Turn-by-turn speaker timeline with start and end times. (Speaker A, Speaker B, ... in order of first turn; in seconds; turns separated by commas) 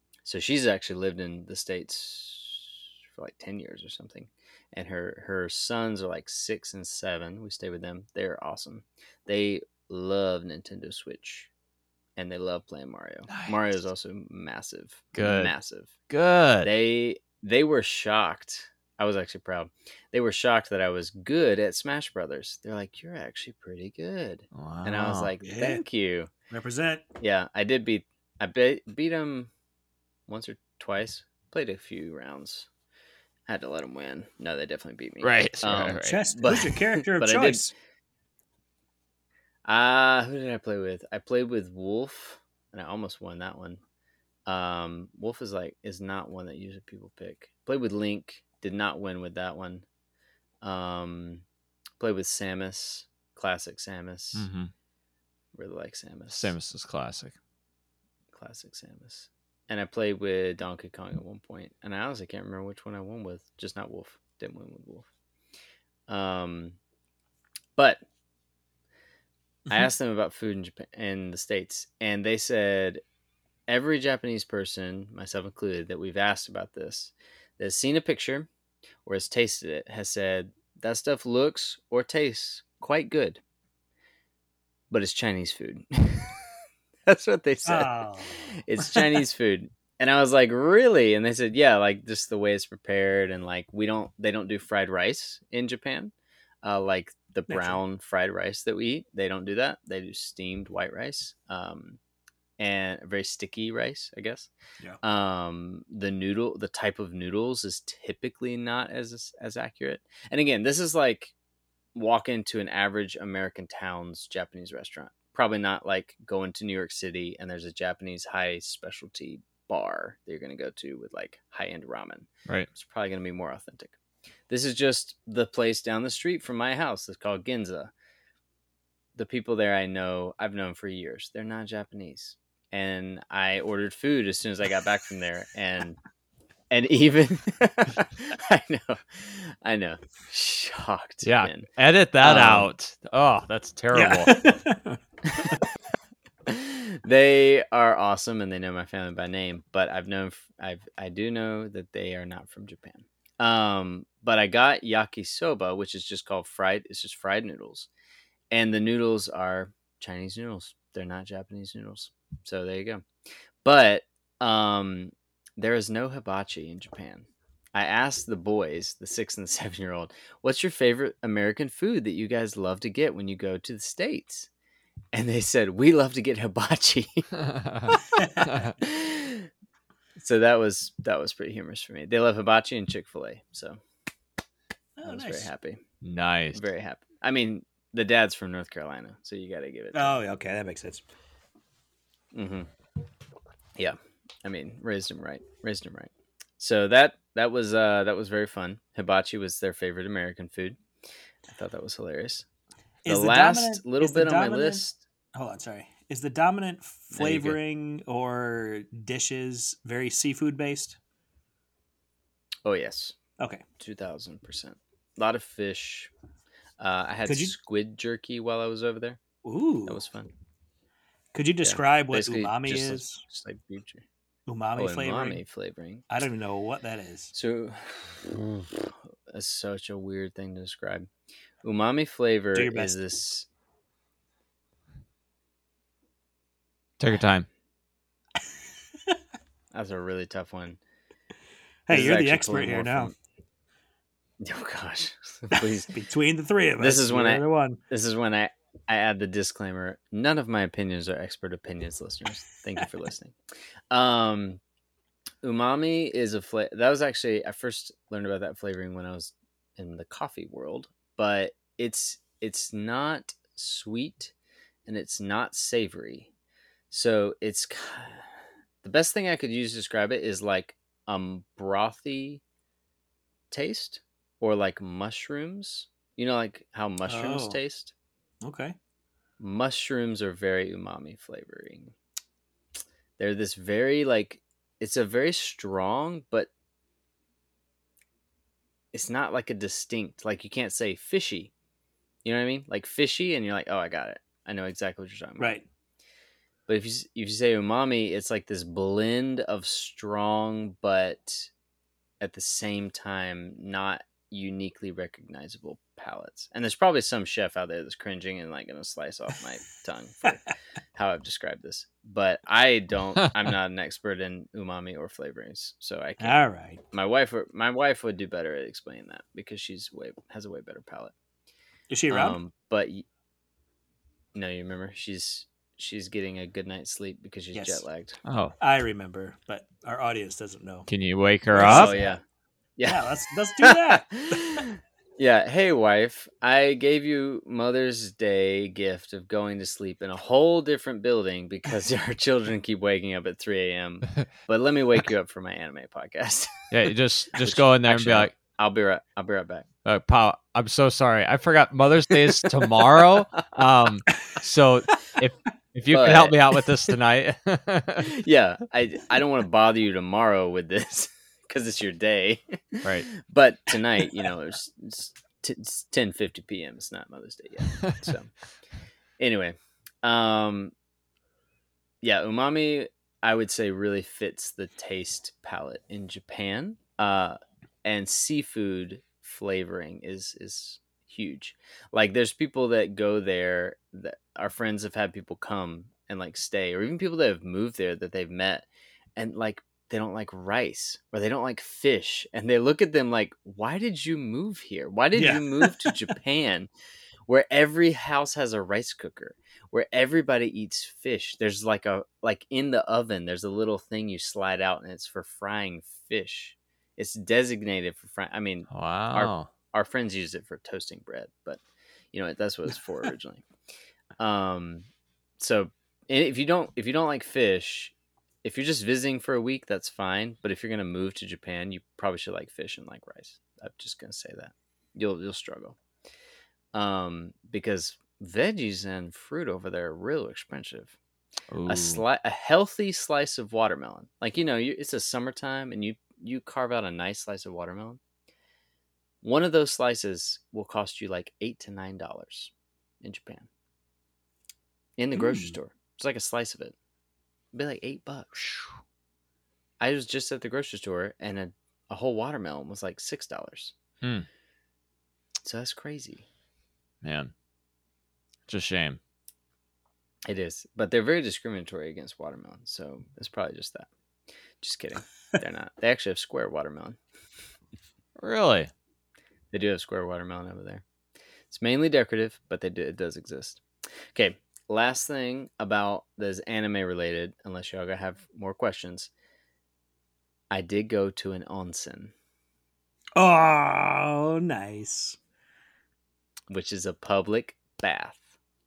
Speaker A: 0.2-11.5, Speaker A: 12.2-15.9, Speaker B: 13.3-13.6, Speaker B: 15.1-15.5, Speaker B: 16.1-16.7, Speaker A: 16.6-26.3, Speaker B: 24.5-25.3, Speaker C: 25.4-25.8, Speaker C: 26.5-27.1, Speaker A: 27.2-29.5, Speaker A: 30.3-32.7, Speaker A: 33.5-37.7, Speaker B: 35.2-36.2, Speaker C: 36.1-37.7, Speaker A: 39.7-43.8, Speaker A: 44.5-49.9, Speaker A: 50.6-51.4, Speaker A: 52.0-54.5, Speaker B: 54.4-54.7, Speaker A: 55.5-56.5, Speaker B: 56.3-57.4, Speaker A: 58.3-65.1, Speaker A: 66.1-66.8, Speaker A: 67.8-68.0, Speaker A: 69.7-73.0, Speaker A: 73.7-78.5, Speaker A: 79.0-83.4, Speaker A: 84.9-86.5, Speaker A: 87.1-88.0, Speaker C: 87.7-89.1, Speaker A: 88.5-102.0, Speaker C: 97.5-97.8, Speaker A: 102.6-104.5, Speaker A: 105.0-111.3, Speaker A: 112.0-124.0, Speaker A: 124.5-127.9, Speaker A: 129.2-136.0, Speaker A: 136.7-141.7, Speaker B: 141.2-144.5, Speaker A: 142.2-142.7, Speaker C: 143.9-145.6, Speaker A: 146.5-157.9, Speaker A: 158.5-163.1, Speaker A: 163.6-174.5, Speaker A: 175.1-177.3, Speaker B: 177.4-178.7, Speaker A: 177.9-179.5, Speaker C: 178.2-178.5, Speaker A: 180.2-183.8, Speaker C: 185.0-185.5, Speaker A: 185.1-185.8, Speaker B: 186.0-186.6, Speaker A: 186.5-190.2, Speaker C: 189.9-191.0, Speaker A: 192.3-192.7, Speaker A: 193.8-200.8, Speaker A: 201.5-202.5, Speaker C: 203.1-211.0, Speaker A: 203.1-205.0, Speaker A: 207.1-207.6, Speaker A: 212.7-213.2, Speaker A: 213.8-216.1, Speaker A: 216.8-219.2, Speaker C: 217.3-217.6, Speaker C: 219.4-220.0, Speaker A: 219.9-220.3, Speaker C: 221.3-223.2, Speaker A: 221.6-224.0, Speaker C: 224.5-225.4, Speaker A: 224.8-226.0, Speaker C: 226.1-227.3, Speaker A: 227.3-231.1, Speaker A: 231.6-233.5, Speaker C: 232.5-233.0, Speaker B: 237.0-237.5, Speaker A: 239.7-240.8, Speaker C: 241.9-243.1, Speaker A: 241.9-243.1, Speaker A: 244.4-245.9, Speaker C: 245.9-247.8, Speaker A: 246.8-253.3, Speaker A: 253.9-254.6, Speaker A: 255.4-264.3, Speaker A: 264.9-266.3, Speaker A: 266.9-268.3, Speaker A: 268.8-272.4, Speaker A: 273.5-277.9, Speaker C: 277.1-277.6, Speaker C: 278.4-278.8, Speaker A: 279.4-281.9, Speaker A: 283.2-286.5, Speaker A: 288.9-291.5, Speaker A: 292.2-295.6, Speaker C: 295.4-295.6, Speaker A: 296.7-301.5, Speaker A: 302.2-316.4, Speaker C: 316.2-316.8, Speaker A: 316.9-321.1, Speaker C: 321.9-322.4, Speaker A: 322.1-323.1, Speaker A: 324.4-328.2, Speaker C: 327.5-327.8, Speaker B: 328.2-328.6, Speaker C: 328.6-330.9, Speaker B: 330.9-332.0, Speaker C: 331.5-332.2, Speaker A: 331.6-332.2, Speaker A: 332.8-333.1, Speaker C: 332.9-334.6, Speaker A: 333.6-346.7, Speaker B: 346.7-348.3, Speaker A: 347.3-349.7, Speaker B: 349.9-358.1, Speaker A: 355.9-356.4, Speaker A: 358.1-368.3, Speaker B: 362.8-363.1, Speaker A: 369.2-370.7, Speaker A: 372.0-396.7, Speaker C: 395.1-395.9, Speaker A: 397.3-411.6, Speaker B: 408.7-409.5, Speaker A: 412.1-413.4, Speaker A: 414.2-414.9, Speaker A: 415.4-417.9, Speaker A: 418.4-425.8, Speaker A: 426.7-430.9, Speaker B: 431.5-432.0, Speaker A: 431.7-438.0, Speaker A: 439.2-443.5, Speaker A: 445.0-446.7, Speaker B: 445.2-445.5, Speaker A: 447.5-448.5, Speaker B: 448.4-448.7, Speaker A: 449.8-453.8, Speaker A: 455.4-456.3, Speaker B: 457.0-457.3, Speaker B: 458.5-459.0, Speaker A: 460.3-463.9, Speaker A: 464.6-467.0, Speaker B: 468.2-468.7, Speaker A: 469.5-470.8, Speaker A: 471.5-473.6, Speaker A: 474.1-479.1, Speaker A: 480.5-482.1, Speaker C: 483.2-485.2, Speaker A: 486.5-488.3